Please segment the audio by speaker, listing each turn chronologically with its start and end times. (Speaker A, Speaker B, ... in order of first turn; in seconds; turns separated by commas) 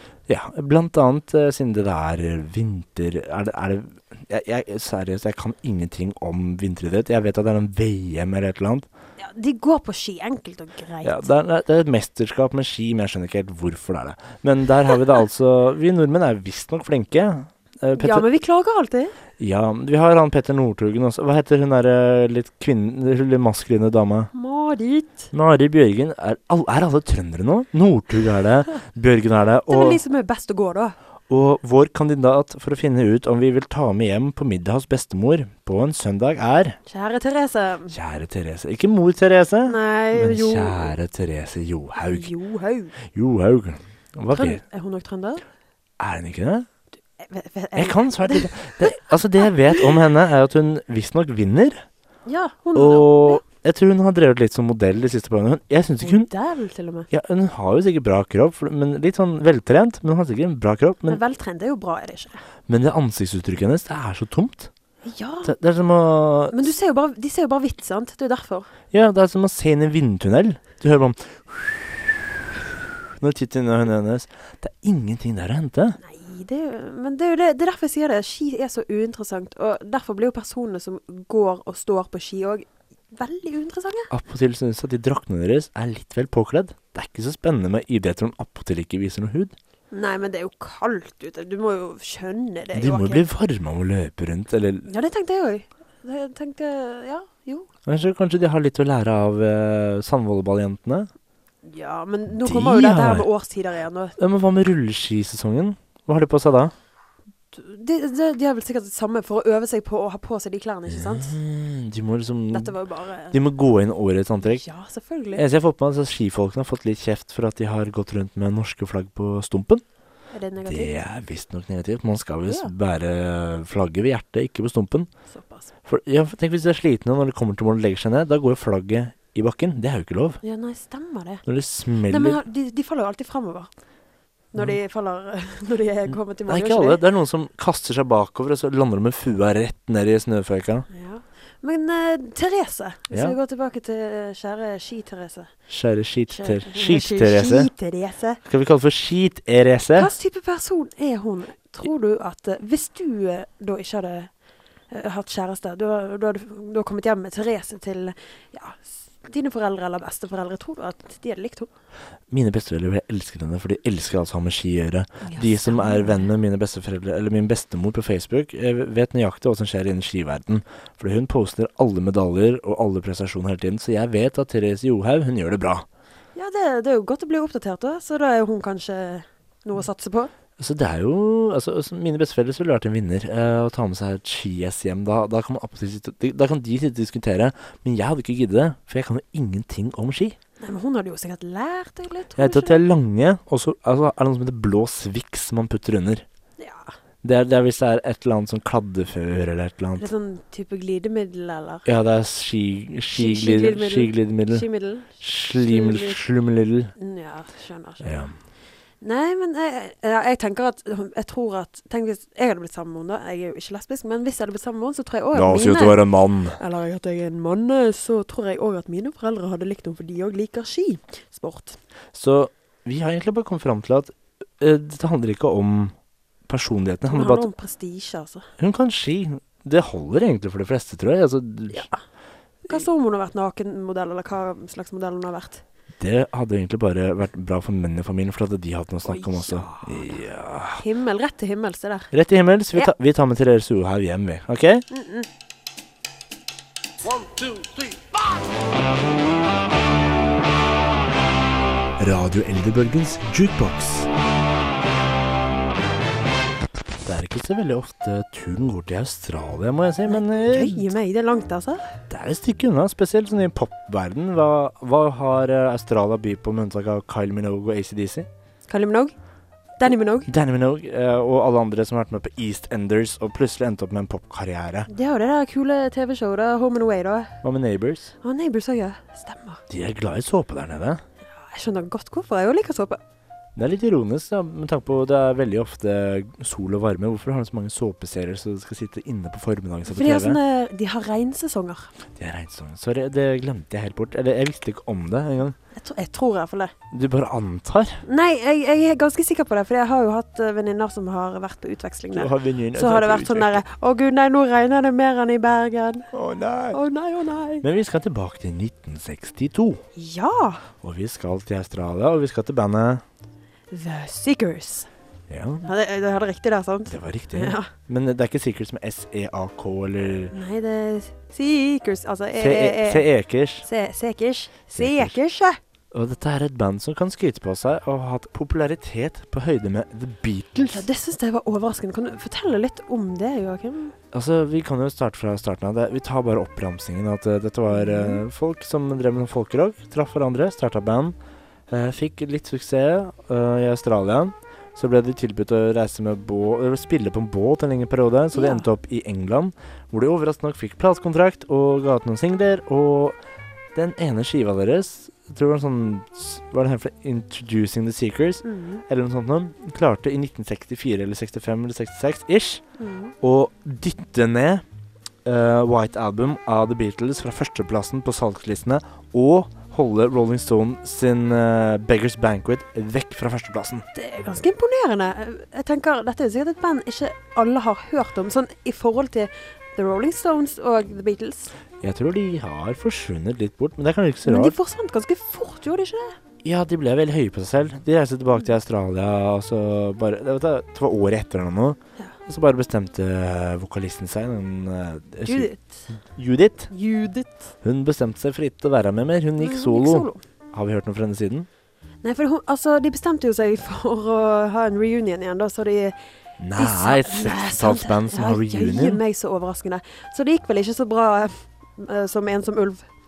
Speaker A: 0.3-8.9, Speaker B: 9.2-11.3, Speaker A: 11.0-18.3, Speaker B: 18.0-19.2, Speaker A: 19.4-24.3, Speaker B: 24.3-25.3, Speaker A: 25.3-30.0, Speaker B: 29.7-31.0, Speaker A: 31.3-36.8, Speaker B: 36.9-38.0, Speaker A: 37.9-42.3, Speaker B: 39.7-41.0, Speaker B: 42.0-43.0, Speaker A: 43.1-44.6, Speaker B: 44.3-45.4, Speaker A: 46.0-46.7, Speaker B: 47.2-49.0, Speaker A: 47.8-51.8, Speaker B: 52.3-53.4, Speaker A: 52.8-56.3, Speaker B: 56.0-57.1, Speaker A: 57.1-61.2, Speaker B: 61.1-62.4, Speaker A: 62.7-64.7, Speaker B: 65.0-65.5, Speaker A: 65.5-66.7, Speaker B: 66.5-68.7, Speaker A: 68.9-72.3, Speaker A: 73.2-76.0, Speaker B: 76.0-84.1, Speaker A: 84.1-89.5, Speaker B: 89.9-93.3, Speaker A: 92.7-94.9, Speaker B: 94.8-97.7, Speaker A: 97.9-101.1, Speaker B: 101.6-104.2, Speaker A: 102.4-103.3, Speaker A: 104.2-106.7, Speaker B: 107.5-111.4, Speaker A: 110.9-112.8, Speaker B: 112.5-113.4, Speaker A: 113.3-114.6, Speaker B: 114.4-115.5, Speaker A: 115.3-119.8, Speaker B: 120.3-121.0, Speaker A: 120.6-125.1, Speaker B: 125.3-125.7, Speaker A: 125.9-130.4, Speaker B: 130.4-131.4, Speaker A: 131.5-132.4, Speaker B: 132.1-133.7, Speaker B: 134.5-137.0, Speaker A: 136.1-140.9, Speaker B: 140.9-145.5, Speaker A: 143.1-143.4, Speaker A: 145.7-147.7, Speaker B: 146.3-148.4, Speaker A: 148.4-150.1, Speaker B: 150.0-154.3, Speaker B: 154.9-161.7, Speaker A: 162.3-175.8, Speaker B: 165.2-166.3, Speaker B: 176.3-180.3, Speaker A: 180.6-190.4, Speaker B: 190.6-192.8, Speaker A: 192.4-196.2, Speaker B: 196.6-196.9, Speaker A: 197.2-200.1, Speaker B: 200.0-201.9, Speaker A: 201.8-204.7, Speaker B: 203.1-206.3, Speaker A: 205.2-206.9, Speaker B: 206.9-208.3, Speaker A: 208.0-208.3, Speaker B: 209.0-221.8, Speaker A: 215.3-216.6, Speaker A: 222.1-225.9, Speaker A: 226.5-227.5, Speaker B: 227.1-228.5, Speaker A: 228.6-231.9, Speaker B: 231.7-232.0, Speaker B: 232.7-235.6, Speaker A: 236.0-240.8, Speaker B: 239.0-240.2, Speaker B: 240.8-242.1, Speaker A: 242.1-244.8, Speaker B: 244.9-245.3, Speaker A: 252.0-254.1, Speaker A: 257.0-260.9, Speaker B: 260.1-261.9, Speaker A: 262.1-268.3, Speaker B: 268.7-269.1, Speaker B: 269.8-270.3, Speaker A: 270.3-274.9, Speaker B: 274.9-277.4, Speaker A: 277.4-278.1, Speaker B: 278.2-279.6, Speaker A: 279.7-281.0, Speaker B: 281.4-283.0, Speaker A: 283.6-290.4, Speaker B: 289.9-291.9, Speaker A: 292.2-295.6, Speaker B: 295.7-296.7, Speaker A: 296.9-298.0, Speaker B: 298.0-306.1, Speaker A: 302.1-303.6, Speaker A: 306.1-306.8, Speaker B: 306.7-307.6, Speaker A: 307.6-309.8, Speaker B: 310.0-310.7, Speaker A: 310.8-313.0, Speaker B: 313.7-314.9, Speaker A: 315.3-315.7, Speaker B: 315.6-317.7, Speaker A: 316.9-320.3, Speaker B: 320.3-323.1, Speaker A: 322.4-323.7, Speaker B: 323.6-325.6, Speaker A: 324.8-325.2, Speaker A: 325.9-330.9, Speaker B: 330.7-333.9, Speaker A: 334.1-341.1, Speaker B: 337.7-338.2, Speaker A: 341.7-353.2, Speaker B: 348.3-348.7, Speaker A: 353.8-362.6, Speaker B: 358.4-358.8, Speaker B: 362.8-363.1, Speaker A: 363.2-364.6, Speaker A: 365.2-373.9, Speaker B: 373.9-381.5, Speaker A: 381.8-384.6, Speaker B: 384.2-386.2, Speaker A: 386.4-396.7, Speaker B: 395.3-395.9, Speaker B: 396.7-397.5, Speaker A: 397.6-401.5, Speaker B: 399.4-400.2, Speaker B: 402.0-406.0, Speaker A: 406.4-409.0, Speaker B: 406.6-412.9